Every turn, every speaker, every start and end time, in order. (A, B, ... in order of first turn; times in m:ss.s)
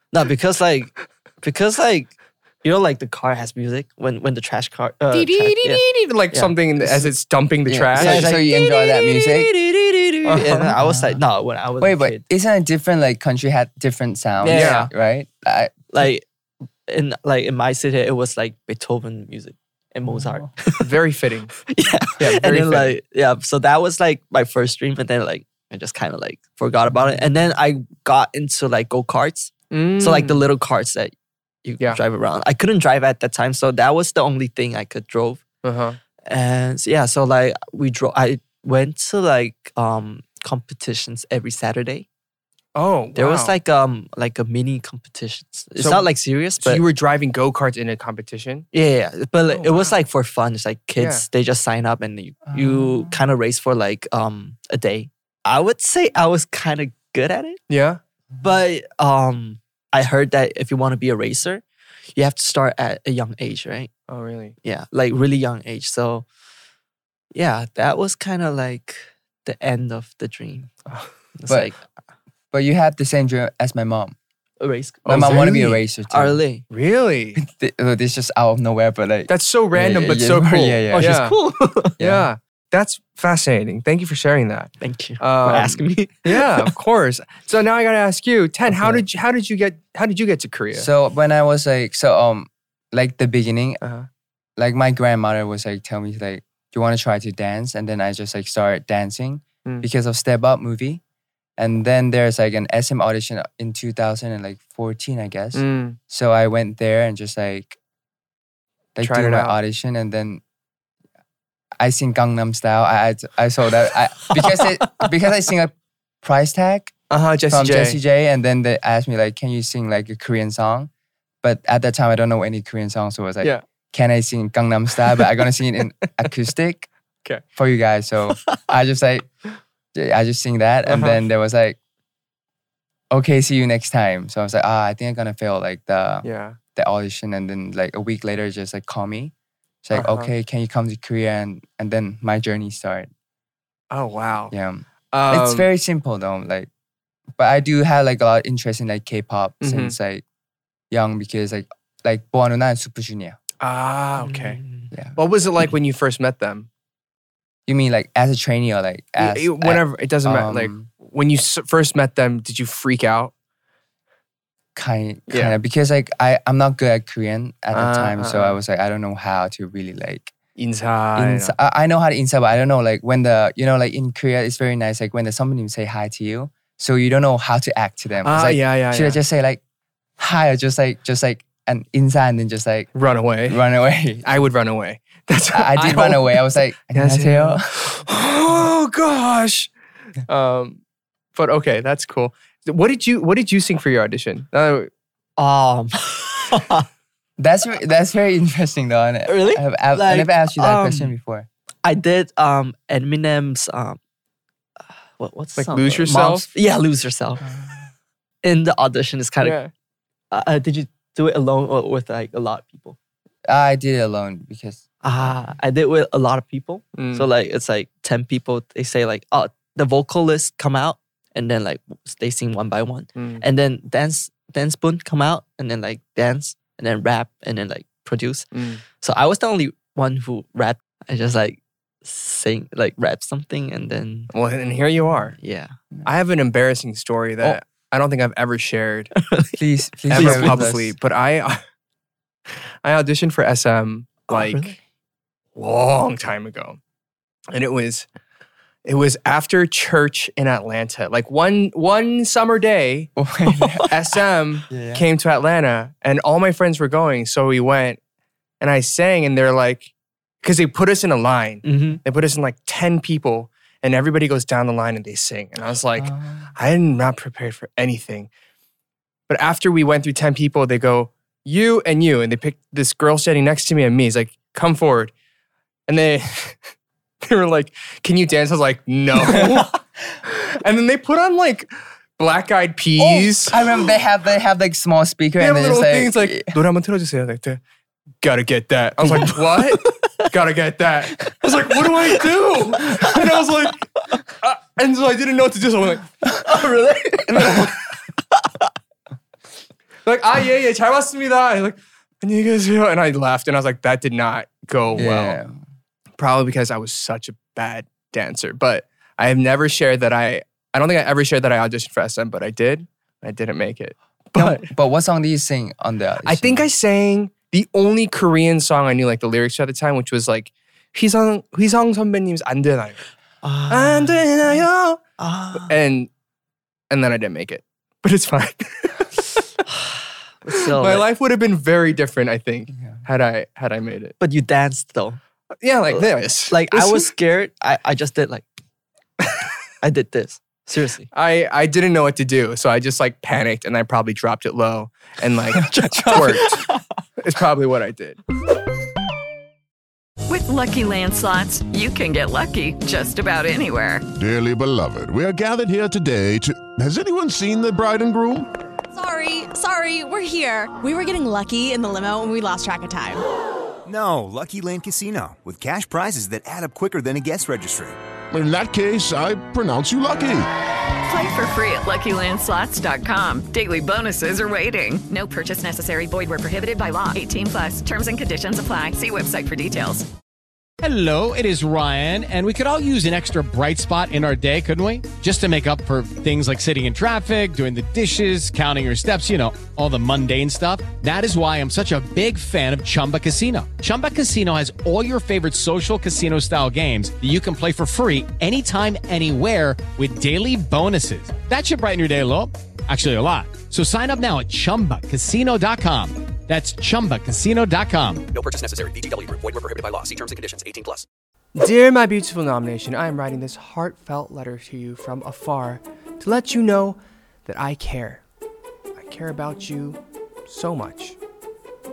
0:00.1-0:07.1 A
0:05.1-0:08.3 B
0:07.6-0:09.5 C
0:07.9-0:12.2 A
0:10.2-0:10.8 B
0:10.8-0:11.2 C
0:11.8-0:15.9 C
0:14.4-0:14.9 B
0:14.4-0:14.9 A
0:15.9-0:16.2 A
0:16.9-0:20.9 A
0:20.8-0:21.5 B
0:21.7-0:31.1 A
0:22.2-0:23.0 B
0:29.7-0:30.4 B
0:31.6-0:35.4 A
0:35.6-0:36.0 B
0:36.3-0:42.0 A
0:42.8-0:43.6 B
0:43.2-0:46.8 A
0:45.8-0:46.1 B
0:46.6-0:48.7 B
0:48.7-0:57.6 A
0:49.4-0:50.0 B
0:51.0-0:51.2 B
0:52.5-0:53.2 C
0:57.7-0:58.0 B
0:58.4-1:01.6 A
1:02.1-1:03.9 A
1:04.1-1:04.6 B
1:04.6-1:06.2 A
1:07.3-1:10.7 A
1:11.3-1:11.8 A
1:12.5-1:14.2 C
1:14.6-1:16.6 A
1:15.0-1:15.8 B
1:15.0-1:16.4 C
1:16.7-1:17.4 B
1:17.4-1:21.2 C
1:19.3-1:21.3 B
1:20.9-1:22.0 A
1:22.0-1:22.3 C
1:22.0-1:30.9 B
1:24.8-1:26.7 A
1:28.7-1:29.0 C
1:30.7-1:33.8 C
1:33.8-1:34.1 B
1:34.6-1:41.0 C
1:41.6-1:47.8 C
1:45.5-1:46.0 B
1:49.0-1:50.4 C
1:49.0-1:49.6 B
1:51.8-1:56.9 C
1:57.1-1:58.0 B
1:57.5-2:00.9 C
2:01.4-2:06.9 C
2:07.6-2:09.3 C
2:09.9-2:11.8 C
2:10.8-2:11.2 B
2:13.1-2:19.3 C
2:16.2-2:16.6 B
2:19.8-2:23.1 C
2:19.9-2:20.3 B
2:23.9-2:24.5 B
2:24.5-2:26.7 C
2:25.1-2:25.7 B
2:27.4-2:30.2 C
2:29.6-2:30.0 B
2:30.9-2:33.4 C
2:33.6-2:34.6 B
2:34.2-2:34.9 A
2:34.9-2:35.2 C
2:35.2-2:36.7 B
2:37.7-2:40.9 C
2:39.2-2:43.3 B
2:44.8-2:50.3 C
2:45.3-2:45.6 B
2:47.7-2:48.6 B
2:50.6-2:51.5 B
2:51.2-2:59.6 C
2:58.2-2:59.2 B
3:00.2-3:02.9 C
3:02.9-3:03.6 B
3:03.4-3:04.3 C
3:04.2-3:09.7 B
3:05.5-3:07.8 C
3:10.3-3:10.8 B
3:11.3-3:14.9 B
3:15.4-3:16.9 A
3:17.4-3:21.5 C
3:19.3-3:21.1 A
3:21.8-3:24.0 A
3:25.2-3:27.5 A
3:25.6-3:26.5 B
3:27.5-3:27.8 C
3:28.4-3:29.6 A
3:29.4-3:29.7 B
3:30.3-3:33.0 A
3:33.5-3:34.8 C
3:35.0-3:48.5 A
3:37.0-3:37.3 B
3:43.2-3:43.4 B
3:48.5-3:48.8 B
3:49.0-3:54.3 A
3:54.3-3:55.4 B
3:55.4-3:55.8 A
3:56.0-3:59.1 B
3:59.2-3:59.6 A
3:59.6-4:00.9 C
4:00.1-4:00.7 A
4:00.1-4:01.6 B
4:02.8-4:04.8 B
4:04.3-4:04.8 A
4:05.6-4:06.8 B
4:07.5-4:08.0 B
4:08.8-4:13.1 B
4:13.2-4:14.0 C
4:13.9-4:18.0 B
4:14.7-4:15.0 C
4:18.6-4:28.3 B
4:21.6-4:22.0 A
4:26.0-4:26.5 C
4:29.3-4:35.1 B
4:35.9-4:36.6 B
4:37.2-4:43.6 B
4:39.3-4:39.6 C
4:43.0-4:46.5 C
4:45.4-4:47.6 B
4:48.2-4:53.9 B
4:54.4-4:56.0 B
4:56.4-4:57.8 A
4:57.3-4:57.7 B
4:58.3-4:58.6 A
5:00.0-5:05.4 B
5:04.9-5:05.6 C
5:06.2-5:14.6 B
5:14.4-5:16.6 C
5:16.2-5:23.0 B
5:23.4-5:24.6 A
5:23.7-5:25.0 B
5:25.2-5:25.8 A
5:25.6-5:26.1 B
5:26.9-5:29.2 B
5:29.8-5:31.0 A
5:30.8-5:34.1 B
5:34.2-5:35.2 A
5:35.6-5:37.1 B
5:35.9-5:38.5 A
5:39.8-5:41.1 A
5:41.1-5:46.6 B
5:45.6-5:46.8 A
5:45.8-5:46.2 C
5:47.2-5:48.2 B
5:50.3-5:54.0 D
5:54.1-5:58.5 E
5:58.9-6:03.2 F
6:03.8-6:08.0 G
6:08.3-6:10.5 E
6:11.1-6:20.1 D
6:20.8-6:48.2 H
6:48.3-6:51.0 I
6:51.5-6:58.2 B
6:59.0-7:01.2 B